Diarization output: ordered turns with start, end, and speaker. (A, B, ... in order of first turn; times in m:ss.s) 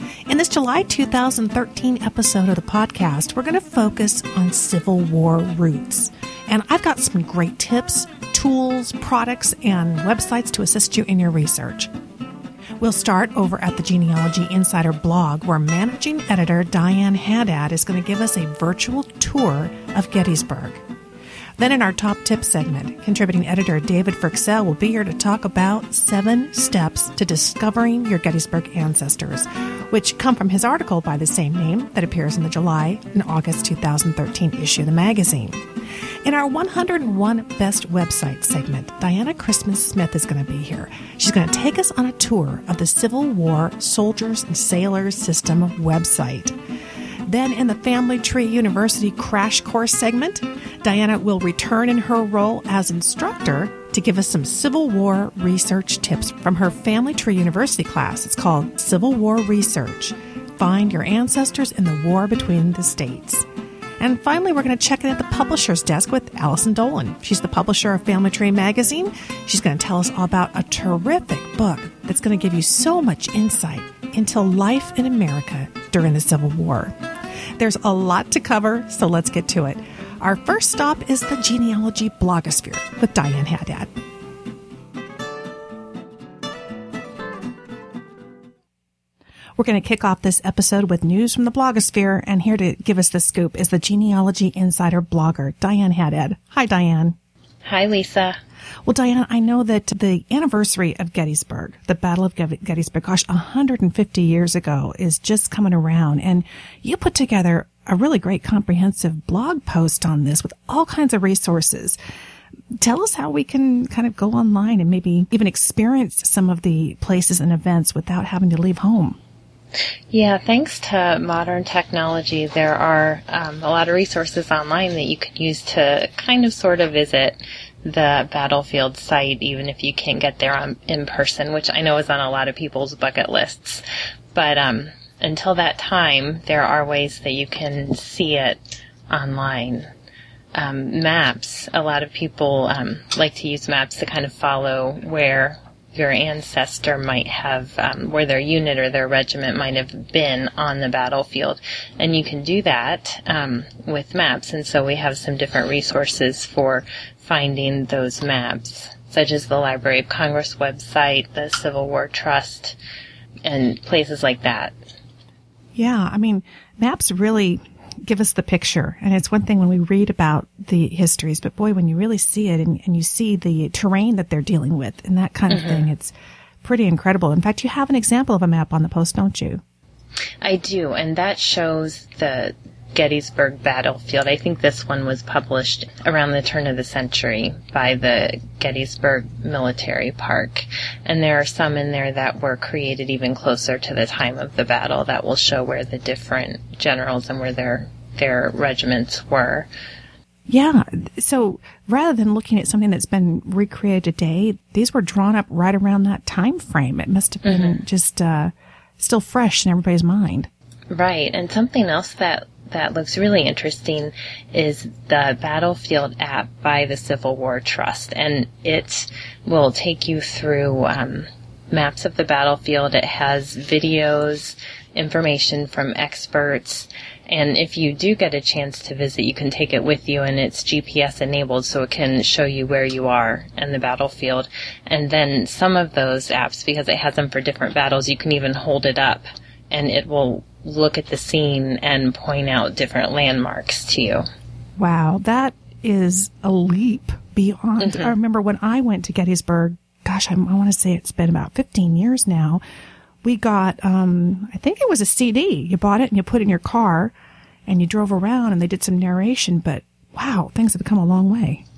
0:00.3-0:11.9 A
0:12.8-0:20.8 A
0:21.6-0:35.6 A
0:36.2-0:46.5 A
0:47.3-1:03.4 A
1:04.0-1:17.0 A
1:17.6-1:23.9 A
1:29.6-1:37.2 A
1:37.6-1:38.4 B
1:38.8-1:52.0 A
1:52.8-1:59.2 A
2:00.1-2:13.8 B
2:14.3-2:19.9 B
2:20.5-2:42.8 B
2:43.4-2:44.7 B
2:45.7-2:59.6 A
2:55.5-2:55.8 B
3:00.4-3:19.7 B
3:20.5-3:30.5 A
3:27.4-3:27.8 B
3:30.9-4:04.3 B
4:04.8-4:12.6 A
4:07.8-4:08.1 B
4:13.2-4:17.1 A
4:17.7-4:21.6 A